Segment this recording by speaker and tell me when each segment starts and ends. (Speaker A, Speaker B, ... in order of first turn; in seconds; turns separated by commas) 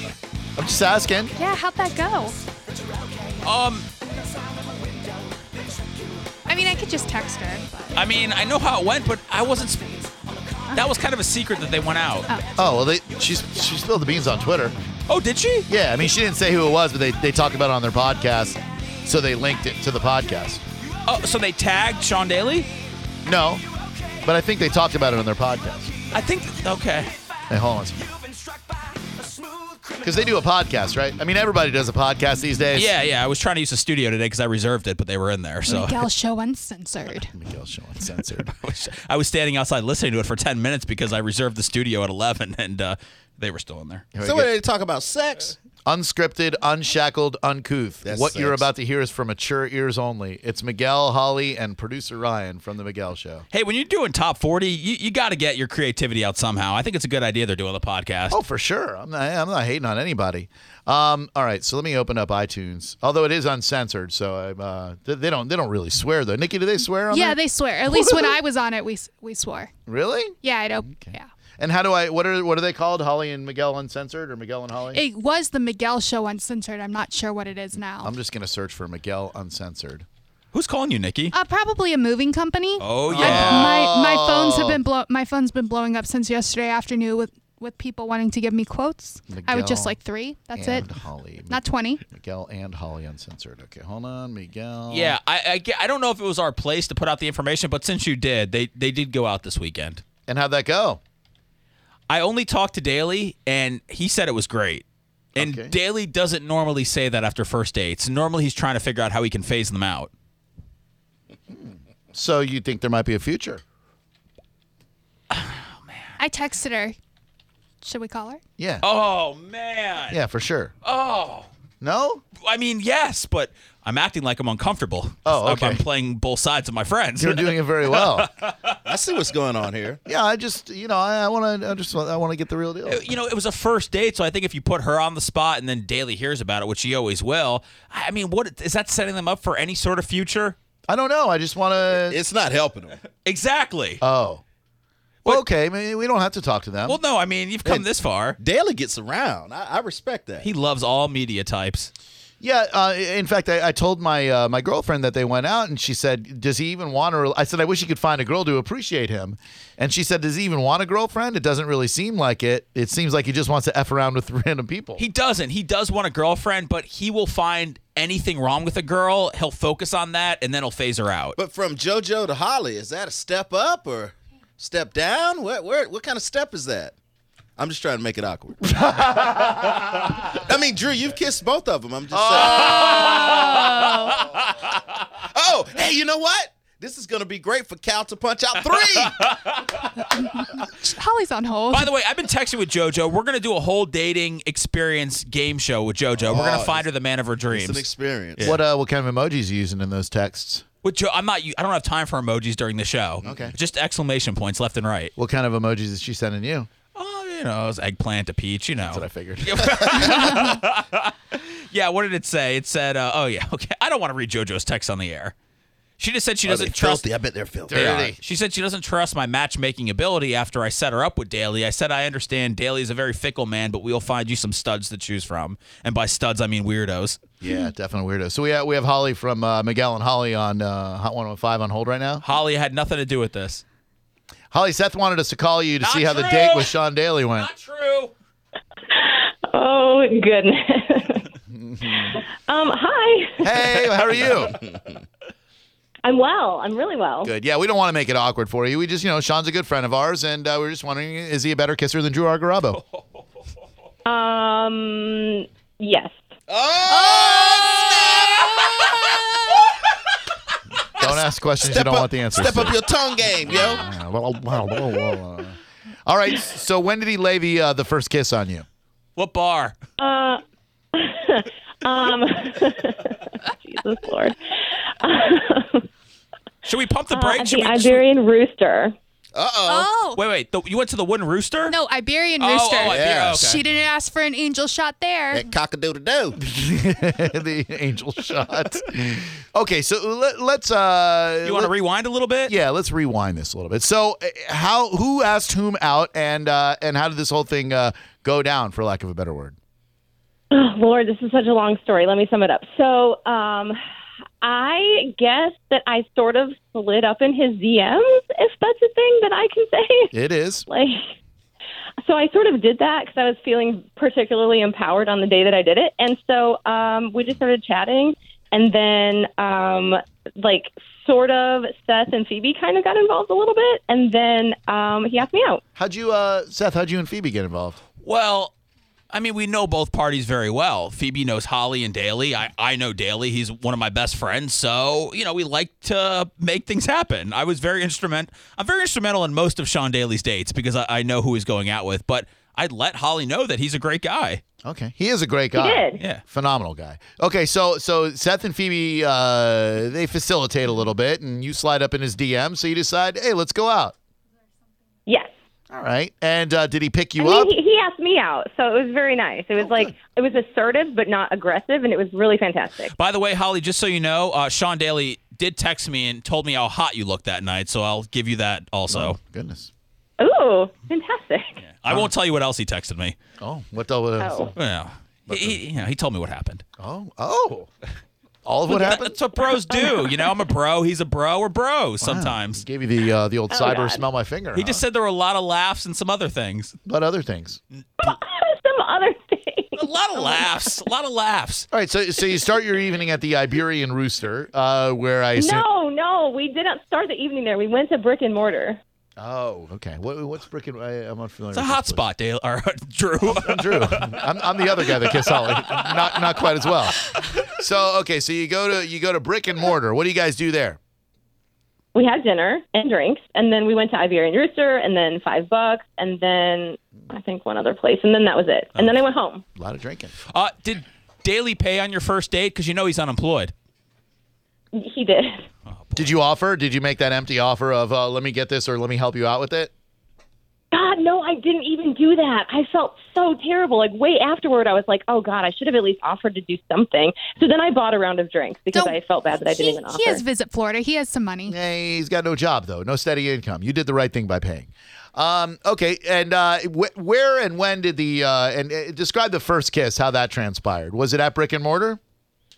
Speaker A: 0.6-1.3, Speaker B: 1.4-2.4, Speaker C: 3.4-3.9, Speaker B: 6.5-7.9, Speaker C: 7.9-10.1, Speaker C: 10.7-12.3, Speaker A: 12.6-14.8, Speaker C: 15.1-15.7, Speaker A: 15.7-20.6, Speaker C: 21.1-22.7, Speaker A: 23.2-23.6, Speaker A: 24.2-25.9, Speaker C: 26.1-27.1, Speaker A: 27.5-28.1, Speaker A: 29.9-33.0, Speaker C: 32.7-36.1, Speaker B: 35.7-37.3, Speaker A: 37.3-38.5, Speaker C: 38.4-44.1, Speaker A: 44.1-44.5, Speaker D: 44.2-45.6, Speaker A: 45.9-53.5, Speaker D: 48.0-48.7, Speaker C: 53.5-58.4, Speaker A: 58.3-68.4, Speaker B: 67.1-69.7, Speaker A: 69.9-75.0, Speaker B: 70.4-71.3, Speaker B: 74.9-78.1, Speaker A: 78.0-80.1, Speaker C: 80.5-81.3, Speaker B: 81.3-90.9, Speaker C: 82.8-83.8, Speaker A: 83.1-84.8, Speaker A: 89.3-90.0, Speaker A: 90.6-95.2, Speaker B: 91.5-92.0, Speaker C: 94.9-100.0, Speaker A: 100.3-101.0, Speaker C: 102.1-104.8, Speaker C: 105.3-110.1, Speaker A: 105.4-105.7, Speaker A: 111.5-113.6, Speaker C: 115.3-116.1, Speaker B: 116.2-117.0, Speaker B: 117.8-118.4, Speaker A: 118.6-118.8, Speaker C: 118.8-120.2, Speaker A: 120.1-120.7, Speaker C: 120.8-121.5, Speaker A: 121.8-122.2, Speaker C: 122.4-128.8, Speaker A: 125.3-125.8, Speaker A: 127.2-128.3, Speaker D: 128.8-130.0, Speaker A: 130.1-133.1, Speaker C: 132.9-140.6, Speaker A: 140.9-142.2, Speaker D: 142.0-143.0, Speaker C: 143.3-144.0, Speaker A: 144.0-144.4, Speaker A: 145.2-147.0, Speaker C: 146.9-148.4, Speaker D: 148.4-150.5, Speaker C: 150.4-151.9, Speaker A: 152.4-165.0, Speaker C: 165.0-171.4, Speaker D: 171.4-176.9, Speaker D: 177.6-178.7, Speaker A: 178.7-180.2, Speaker D: 180.3-182.8, Speaker A: 182.1-183.3, Speaker C: 182.5-184.5, Speaker B: 182.6-184.2, Speaker D: 185.2-189.2, Speaker C: 188.8-189.9, Speaker B: 190.2-191.9, Speaker C: 191.7-198.6, Speaker D: 196.2-196.9, Speaker D: 197.5-198.5, Speaker A: 198.4-200.6, Speaker C: 200.8-205.1, Speaker D: 203.2-203.5, Speaker A: 203.2-203.5, Speaker A: 205.2-206.7, Speaker C: 206.9-215.3, Speaker A: 208.8-210.5, Speaker C: 216.0-217.1, Speaker D: 216.4-218.1, Speaker A: 217.7-218.2, Speaker C: 217.8-227.2, Speaker A: 227.4-232.2, Speaker C: 232.2-233.6, Speaker A: 234.5-237.5, Speaker C: 235.8-236.7, Speaker C: 237.4-238.1, Speaker E: 238.9-241.3, Speaker A: 241.5-242.2, Speaker E: 242.0-243.7, Speaker A: 243.4-244.6, Speaker D: 244.2-245.0, Speaker E: 246.0-247.3, Speaker A: 247.2-252.8, Speaker E: 254.1-256.2, Speaker D: 256.5-259.7, Speaker A: 256.9-257.8, Speaker C: 257.9-258.9, Speaker A: 260.9-262.8, Speaker D: 261.6-263.9, Speaker A: 263.4-268.7, Speaker C: 269.2-269.8, Speaker E: 270.0-270.4, Speaker E: 270.9-275.9, Speaker C: 276.6-278.0, Speaker E: 277.1-279.0, Speaker D: 279.4-279.9, Speaker B: 279.7-280.2, Speaker C: 280.2-281.8, Speaker B: 281.7-285.4, Speaker C: 282.4-283.6, Speaker D: 282.8-283.6, Speaker D: 285.3-286.4, Speaker A: 286.4-291.7, Speaker C: 291.4-292.5, Speaker A: 292.5-299.6, Speaker E: 300.5-303.8, Speaker E: 304.4-310.1, Speaker A: 310.1-310.7, Speaker E: 310.7-311.1, Speaker E: 312.0-325.6, Speaker A: 325.8-327.8, Speaker C: 328.0-328.5, Speaker C: 329.1-344.4, Speaker A: 344.6-354.0, Speaker E: 345.6-346.0, Speaker E: 355.1-355.3, Speaker A: 355.7-357.5, Speaker E: 357.2-362.9, Speaker A: 359.6-359.9, Speaker C: 362.9-369.2, Speaker A: 368.9-369.7, Speaker E: 370.2-371.6, Speaker C: 371.6-373.2, Speaker A: 373.4-374.5, Speaker E: 374.2-374.5, Speaker C: 374.6-376.6, Speaker A: 375.3-375.6, Speaker A: 376.8-377.7, Speaker A: 378.4-379.2, Speaker C: 378.7-382.6, Speaker E: 379.7-380.3, Speaker A: 382.0-384.8, Speaker E: 383.5-384.0, Speaker C: 384.6-386.8, Speaker A: 386.9-387.6, Speaker E: 388.0-390.7, Speaker C: 389.8-391.7, Speaker A: 391.7-395.6, Speaker E: 395.4-398.8, Speaker A: 399.2-402.0, Speaker C: 401.5-407.2, Speaker A: 403.2-410.8, Speaker E: 411.9-419.4, Speaker A: 419.6-420.1, Speaker C: 420.3-423.5, Speaker E: 424.7-425.5, Speaker C: 425.7-426.1, Speaker A: 426.0-429.7, Speaker E: 430.7-440.2, Speaker B: 438.7-441.6, Speaker A: 441.5-452.0